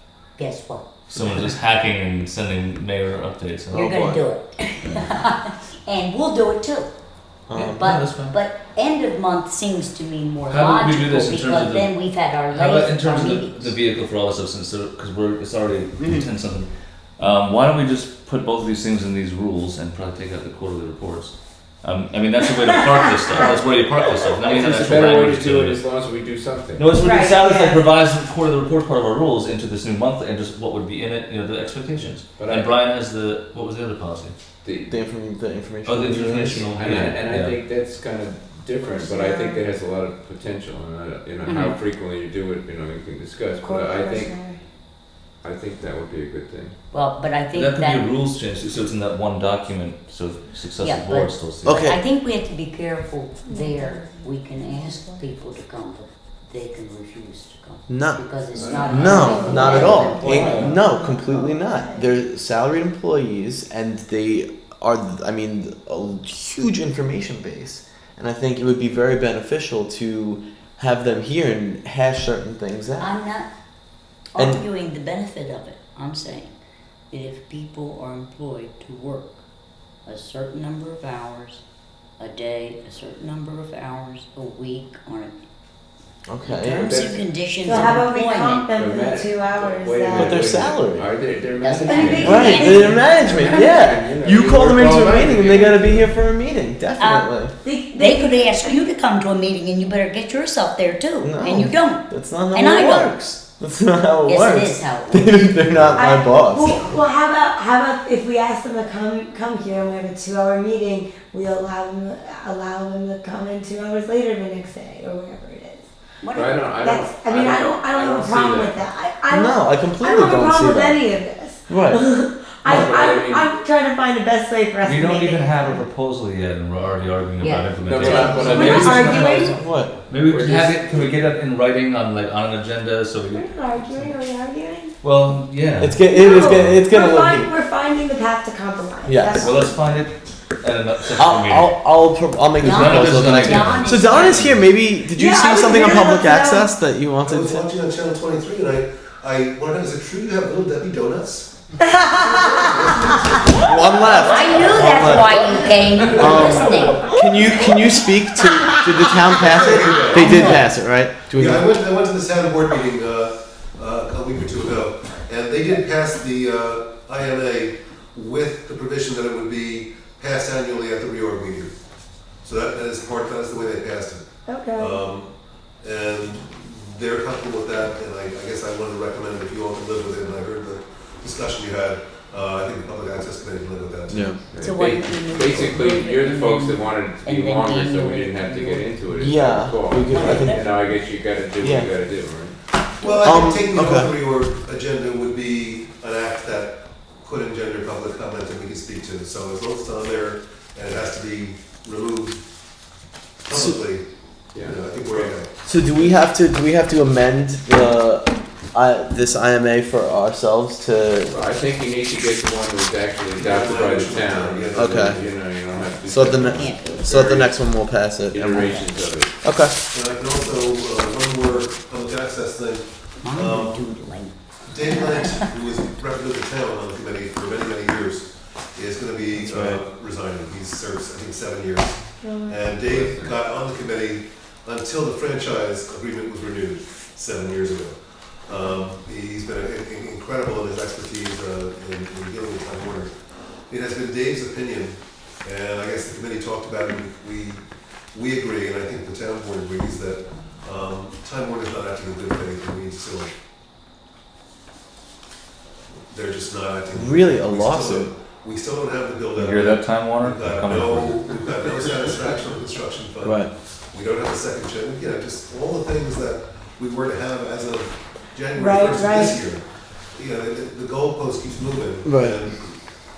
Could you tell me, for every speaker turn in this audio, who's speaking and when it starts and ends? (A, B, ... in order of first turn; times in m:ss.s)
0:00.4-0:01.1 A
0:01.1-0:04.0 B
0:01.2-0:01.5 C
0:03.7-0:06.9 A
0:03.7-0:04.2 C
0:07.5-0:07.8 C
0:07.5-0:08.3 B
0:07.6-0:13.8 A
0:10.5-0:11.9 B
0:12.5-0:25.8 B
0:16.0-0:16.3 C
0:22.8-0:23.5 D
0:24.4-0:26.8 E
0:26.8-0:34.3 B
0:26.9-0:27.8 D
0:32.4-0:32.7 E
0:34.6-0:34.9 E
0:34.9-0:36.6 C
0:35.8-0:37.6 B
0:36.7-0:44.3 E
0:38.8-0:39.6 D
0:41.4-0:41.8 A
0:43.6-0:44.6 D
0:45.4-0:46.7 E
0:46.9-0:48.1 A
0:47.5-0:51.8 B
0:50.8-1:00.8 A
0:51.6-0:52.0 C
0:53.4-0:55.3 D
0:57.9-0:58.2 C
0:58.5-1:00.7 E
0:58.6-1:02.1 D
0:58.8-1:13.1 C
0:59.1-1:00.1 B
1:13.0-1:13.5 A
1:14.3-1:16.5 A
1:14.4-1:14.6 C
1:17.1-1:19.4 A
1:20.0-1:21.6 A
1:22.2-1:25.4 A
1:26.3-1:26.9 C
1:26.6-1:27.8 E
1:26.8-1:28.7 A
1:27.6-1:30.4 D
1:28.8-1:36.1 E
1:30.1-1:31.1 C
1:31.6-1:32.8 A
1:31.8-1:33.7 D
1:32.2-1:37.5 C
1:37.0-1:37.4 A
1:37.6-1:38.8 D
1:37.9-1:43.2 A
1:41.2-1:46.8 C
1:44.2-1:45.8 A
1:46.0-1:55.9 D
1:56.2-1:56.6 A
1:56.3-1:58.8 E
1:56.8-2:05.8 D
1:59.3-2:01.0 C
2:01.7-2:02.0 C
2:02.6-2:03.5 E
2:04.8-2:09.6 B
2:07.4-2:08.5 A
2:07.8-2:11.2 E
2:08.0-2:10.0 C
2:08.4-2:09.6 D
2:10.1-2:13.5 B
2:13.3-2:14.9 D
2:15.0-2:16.8 B
2:15.8-2:17.5 C
2:16.1-2:20.0 D
2:19.0-2:19.6 C
2:19.4-2:21.7 B
2:21.2-2:27.6 C
2:22.6-2:24.6 A
2:22.6-2:24.7 B
2:25.1-2:26.7 D
2:27.2-2:31.5 F
2:31.8-2:33.3 D
2:32.1-2:36.8 F
2:33.6-2:35.4 C
2:34.2-2:37.1 A
2:36.0-2:36.7 E
2:36.1-2:41.7 C
2:39.3-2:40.6 F
2:40.1-2:40.5 D
2:40.3-2:40.7 A
2:41.3-2:51.7 F
2:52.4-3:04.4 F
2:54.5-2:55.0 D
3:04.1-3:04.4 C
3:04.5-3:12.5 E
3:04.6-3:09.0 A
3:09.1-3:10.7 C
3:10.0-3:10.8 A
3:11.6-3:11.9 C
3:13.0-3:22.4 F
3:13.1-3:13.5 D
3:13.2-3:14.1 C
3:23.4-3:24.0 F
3:23.5-3:23.8 C
3:24.5-3:25.3 E
3:24.6-3:25.5 F
3:25.6-3:31.4 C
3:31.3-3:37.6 E
3:33.4-3:35.2 F
3:34.7-3:35.2 C
3:36.0-3:38.8 C
3:36.6-3:37.2 A
3:38.3-3:39.3 E
3:39.4-3:39.8 C
3:39.9-3:43.8 F
3:43.2-3:45.5 A
3:44.6-3:58.0 F
3:49.3-3:49.8 C
3:52.2-3:52.7 D
3:52.8-3:53.4 E
3:58.5-4:03.1 F
4:03.7-4:13.3 F
4:16.1-4:32.8 F
4:16.9-4:18.1 C
4:19.4-4:21.9 B
4:23.2-4:23.5 C
4:28.5-4:29.4 D
4:32.0-4:32.4 C